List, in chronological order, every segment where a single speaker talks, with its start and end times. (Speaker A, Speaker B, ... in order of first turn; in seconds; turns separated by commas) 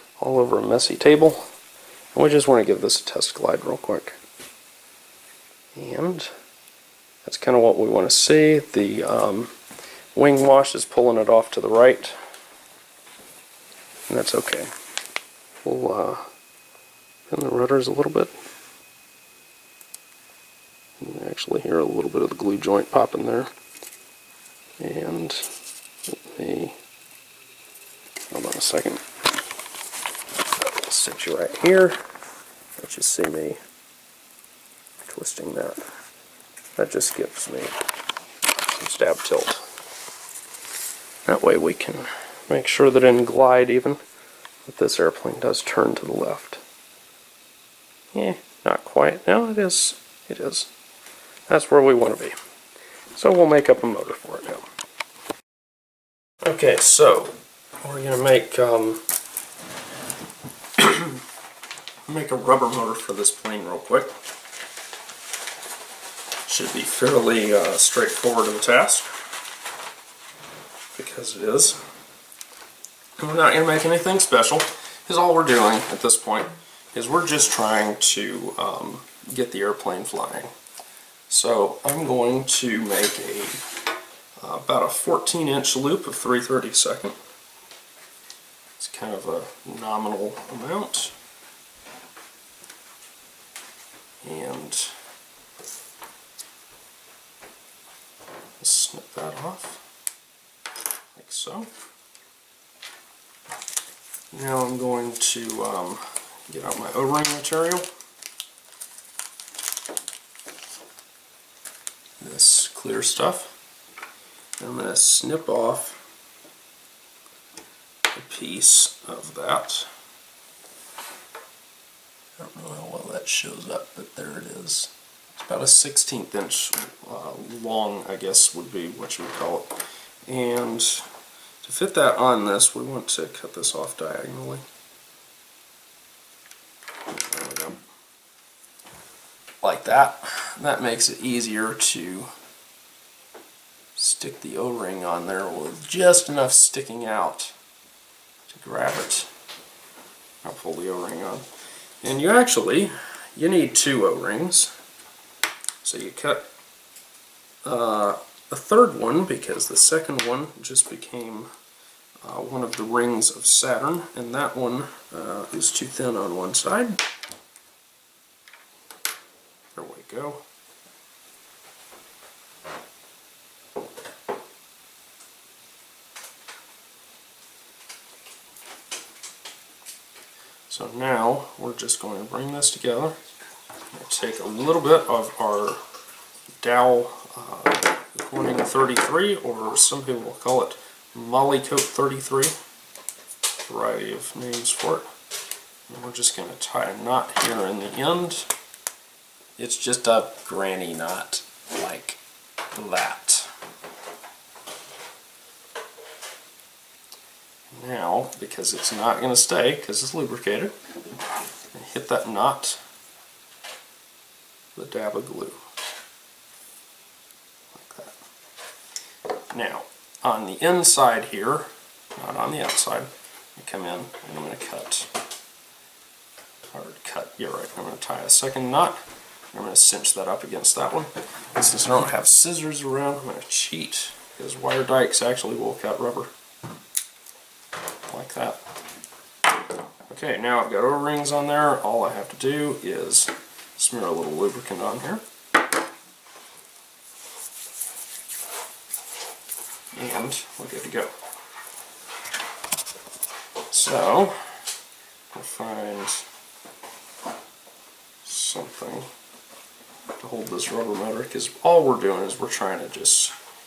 Speaker A: 0.2-1.4, Speaker A: 2.1-4.2, Speaker A: 5.7-6.3, Speaker A: 7.2-9.5, Speaker A: 10.1-12.2, Speaker A: 14.1-14.7, Speaker A: 15.6-16.3, Speaker A: 17.3-18.3, Speaker A: 21.0-23.5, Speaker A: 24.8-25.5, Speaker A: 26.1-26.8, Speaker A: 28.3-29.0, Speaker A: 30.6-32.0, Speaker A: 32.8-33.6, Speaker A: 35.0-35.9, Speaker A: 36.8-37.7, Speaker A: 38.7-39.6, Speaker A: 41.2-44.0, Speaker A: 44.6-46.6, Speaker A: 48.1-50.7, Speaker A: 51.5-52.4, Speaker A: 53.1-54.7, Speaker A: 56.4-59.0, Speaker A: 60.8-61.2, Speaker A: 62.0-64.1, Speaker A: 66.4-69.1, Speaker A: 70.9-71.8, Speaker A: 73.2-80.5, Speaker A: 81.3-83.6, Speaker A: 84.4-87.2, Speaker A: 88.8-91.1, Speaker A: 94.2-95.0, Speaker A: 98.6-99.8, Speaker A: 101.1-101.7, Speaker A: 104.3-107.9, Speaker A: 112.2-113.5, Speaker A: 114.6-116.0, Speaker A: 118.1-119.9, Speaker A: 122.4-131.1, Speaker A: 131.6-134.7, Speaker A: 137.1-137.8, Speaker A: 139.6-142.3, Speaker A: 143.9-147.5, Speaker A: 148.5-149.3, Speaker A: 150.4-151.5, Speaker A: 152.0-154.7, Speaker A: 155.8-156.5, Speaker A: 157.6-161.5, Speaker A: 162.2-167.0, Speaker A: 169.7-170.4, Speaker A: 180.7-183.2, Speaker A: 183.9-185.8, Speaker A: 186.6-192.6, Speaker A: 193.7-195.1, Speaker A: 195.9-198.5, Speaker A: 199.6-202.2, Speaker A: 202.7-203.5, Speaker A: 207.7-210.7, Speaker A: 211.7-212.8, Speaker A: 214.7-215.6, Speaker A: 217.7-218.2, Speaker A: 219.5-225.1, Speaker A: 226.7-229.0, Speaker A: 229.5-236.3, Speaker A: 238.1-238.6, Speaker A: 240.1-245.2, Speaker A: 249.9-251.1, Speaker A: 253.7-254.6, Speaker A: 255.3-256.3, Speaker A: 258.2-259.1, Speaker A: 260.2-263.3